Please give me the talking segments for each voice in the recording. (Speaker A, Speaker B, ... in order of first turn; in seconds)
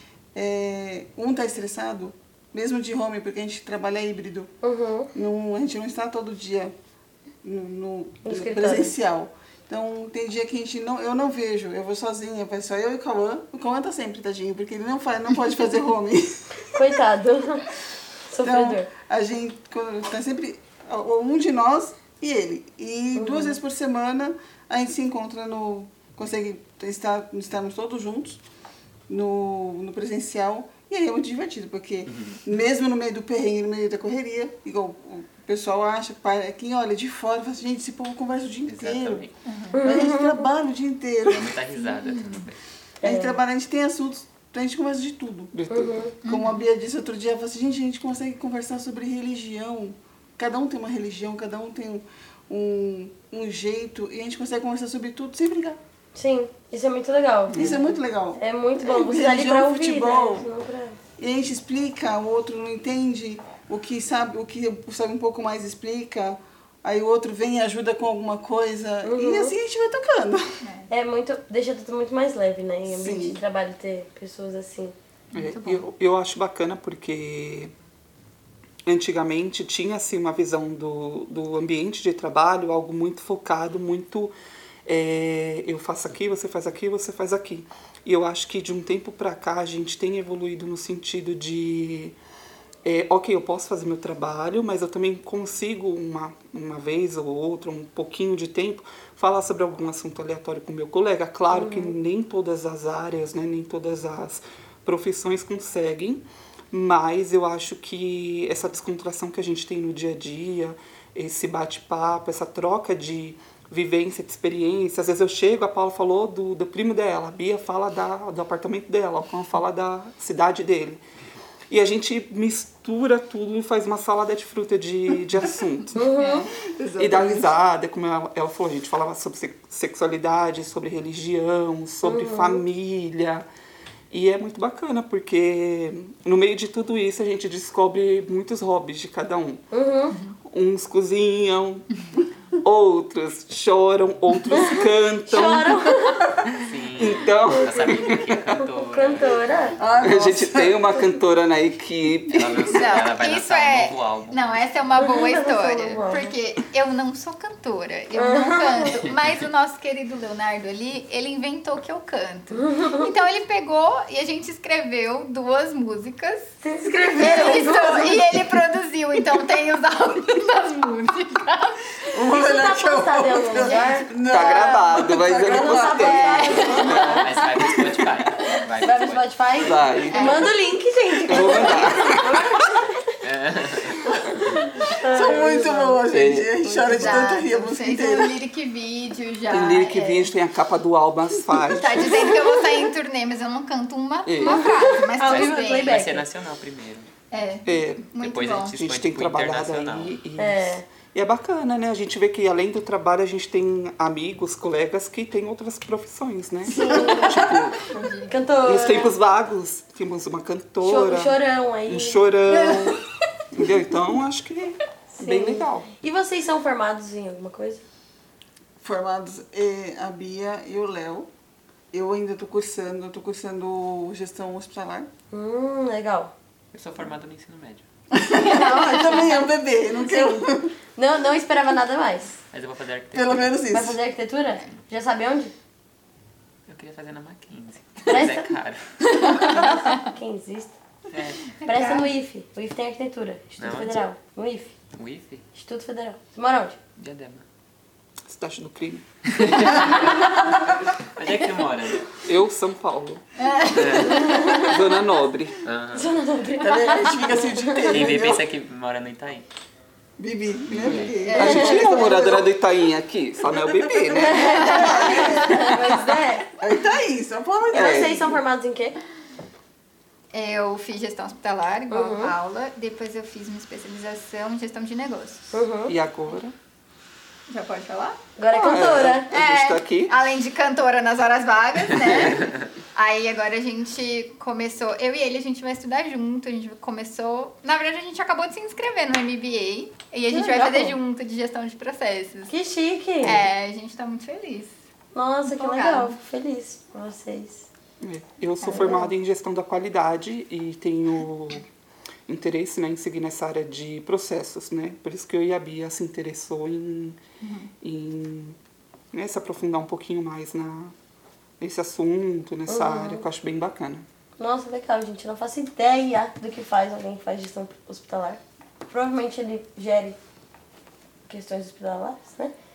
Speaker A: 0.3-4.5, 5.1-6.7, 7.4-16.4, 18.4-28.4, 29.1-41.6, 43.0-45.5, 46.3-55.8, 57.5-60.5, 61.2-70.6, 72.9-73.4, 126.3-127.5, 149.8-150.8, 152.3-152.6, 167.2-168.2, 172.1-177.0, 181.7-182.0, 185.0-188.4, 218.8-221.3, 221.9-225.1, 228.1-230.7, 233.1-234.0, 256.6-258.4, 260.2-262.4, 264.3-265.8, 266.6-268.4
Speaker B: 4.6-5.1, 8.2-8.9, 16.7-17.7, 18.3-18.9, 23.2-23.6, 39.7-40.4, 43.0-43.4, 45.7-46.1, 56.1-57.8, 58.4-61.0, 69.0-69.5, 70.9-75.0, 101.5-101.9, 126.0-126.4, 132.0-132.6, 139.7-140.2, 145.3-146.3, 147.5-148.0, 148.6-149.8, 155.0-156.3, 158.1-159.0, 166.6-168.2, 172.3-177.3, 178.8-183.1, 184.4-187.4, 194.5-196.3, 200.4-200.8, 206.8-207.5, 208.3-209.1, 210.8-212.2, 215.1-217.8, 225.3-226.3, 230.0-230.4, 231.0-232.4, 233.7-235.5, 238.1-238.5, 239.2-240.8, 241.6-244.7, 245.5-246.8, 254.1-254.7, 255.9-258.1, 261.4-262.1, 264.1-266.5, 267.7-269.0, 271.9-272.4, 275.5-275.9, 278.4-279.3, 290.3-291.0, 292.5-293.4, 295.1-297.7, 298.7-299.1, 312.7-313.3, 314.4-320.2, 321.3-322.5
Speaker C: 32.1-32.4, 38.6-39.4, 41.3-42.6, 146.6-149.8, 152.3-154.7, 176.9-179.4, 183.2-184.0, 195.3-197.1, 198.2-200.2, 226.7-227.8, 232.5-233.5, 236.7-238.8, 241.1-241.6, 243.6-244.1, 244.9-245.5, 247.0-247.4, 249.4-252.1, 253.7-254.5, 255.6-256.1, 257.9-259.5, 260.7-261.2
Speaker D: 39.5-39.8, 41.8-42.5, 46.2-46.6, 70.6-70.9, 75.3-75.9, 126.1-126.5, 152.7-172.0, 173.5-174.1, 176.0-177.3, 180.1-180.5, 187.0-190.3, 191.7-196.0, 197.3-198.8, 206.7-208.4, 212.5-213.0, 228.4-229.4, 239.1-239.7, 241.6-242.1, 253.4-254.4, 261.0-261.8, 264.4-266.2, 270.3-275.6, 277.5-292.5, 293.2-294.7, 295.4-296.2, 298.6-299.0, 307.4-307.7
Speaker E: 45.5-46.1, 75.3-77.7, 78.9-84.3, 84.9-92.2, 92.8-121.0, 121.7-126.1, 127.0-133.5, 134.1-139.6, 140.5-141.9, 142.6-145.9, 146.9-148.6, 150.0-152.6, 174.2-177.2, 179.6-180.5, 181.3-182.2, 189.5-192.3, 194.3-194.8, 197.7-198.1, 198.8-207.9, 208.6-213.0, 213.5-215.9, 248.3-249.1, 252.2-253.2, 254.5-255.7, 261.3-264.9, 267.7-268.2, 275.9-276.5, 278.7-280.2, 298.0-301.7, 302.3-307.2, 307.8-308.6, 309.1-310.9, 311.6-314.1